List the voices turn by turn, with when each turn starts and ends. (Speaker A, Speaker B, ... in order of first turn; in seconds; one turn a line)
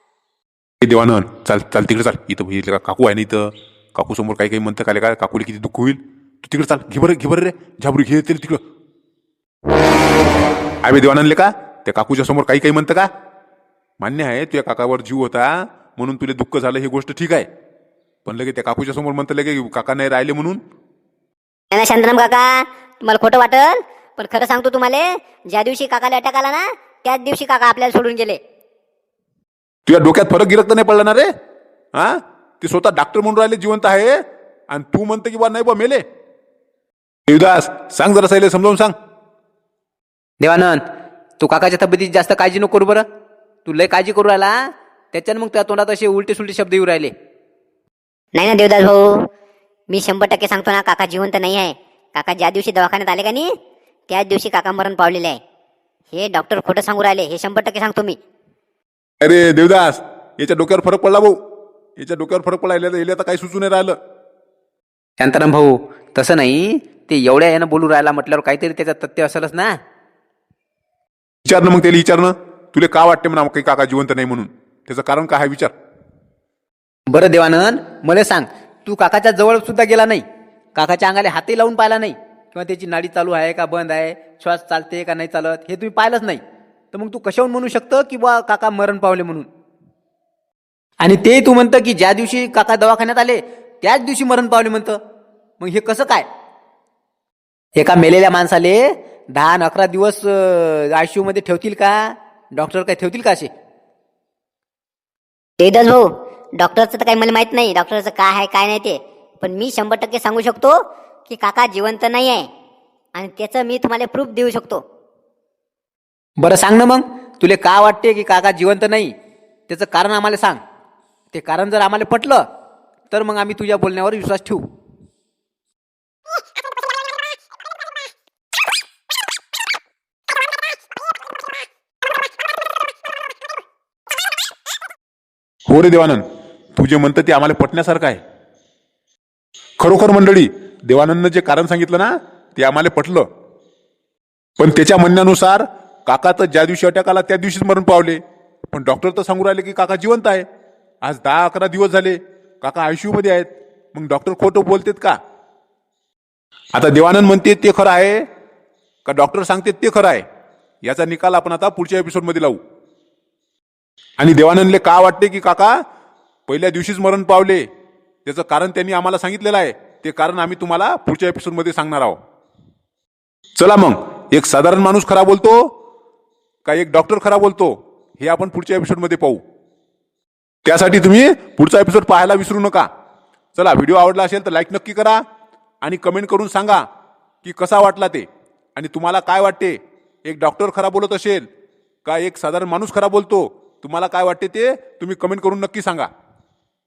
Speaker A: 0.8-8.6
Speaker A: 10.8-13.1
Speaker A: 14.0-17.5
Speaker A: 18.3-20.6
Speaker B: 21.7-28.4
Speaker A: 29.9-31.3
Speaker A: 31.9-34.1
Speaker A: 34.7-36.0
Speaker A: 37.3-38.9
Speaker C: 40.4-40.8
Speaker C: 41.4-43.0
Speaker C: 43.7-44.5
Speaker C: 45.1-47.1
Speaker B: 48.4-49.2
Speaker B: 49.9-53.5
Speaker B: 54.1-55.4
Speaker B: 56.1-58.2
Speaker A: 59.2-61.4
Speaker A: 62.0-64.0
Speaker C: 65.2-69.7
Speaker A: 71.5-75.7
Speaker C: 77.1-80.2
Speaker C: 80.8-86.4
Speaker C: 86.9-89.5
Speaker C: 91.0-95.0
Speaker C: 95.6-96.3
Speaker C: 97.8-103.5
Speaker B: 105.6-112.5
Speaker B: 113.2-114.8
Speaker C: 116.4-119.1
Speaker C: 119.7-120.6
Speaker C: 121.3-122.4
Speaker C: 123.1-124.6
Speaker A: 135.7-136.2
Speaker A: 136.8-138.2
Speaker A: 139.8-143.3
Speaker A: 144.6-148.2
Speaker A: 148.7-150.4
Speaker A: 151.0-155.2
Speaker A: 156.7-158.2
Speaker A: 159.1-160.2
Speaker A: 160.8-162.6
Speaker A: 164.2-165.7
Speaker A: 166.5-167.7
Speaker A: 168.2-172.2
Speaker A: 173.6-175.6
Speaker A: 176.7-179.4
Speaker A: 180.7-182.9
Speaker A: 183.6-185.2
Speaker A: 185.8-186.8
Speaker A: 187.4-191.5
Speaker A: 192.1-196.1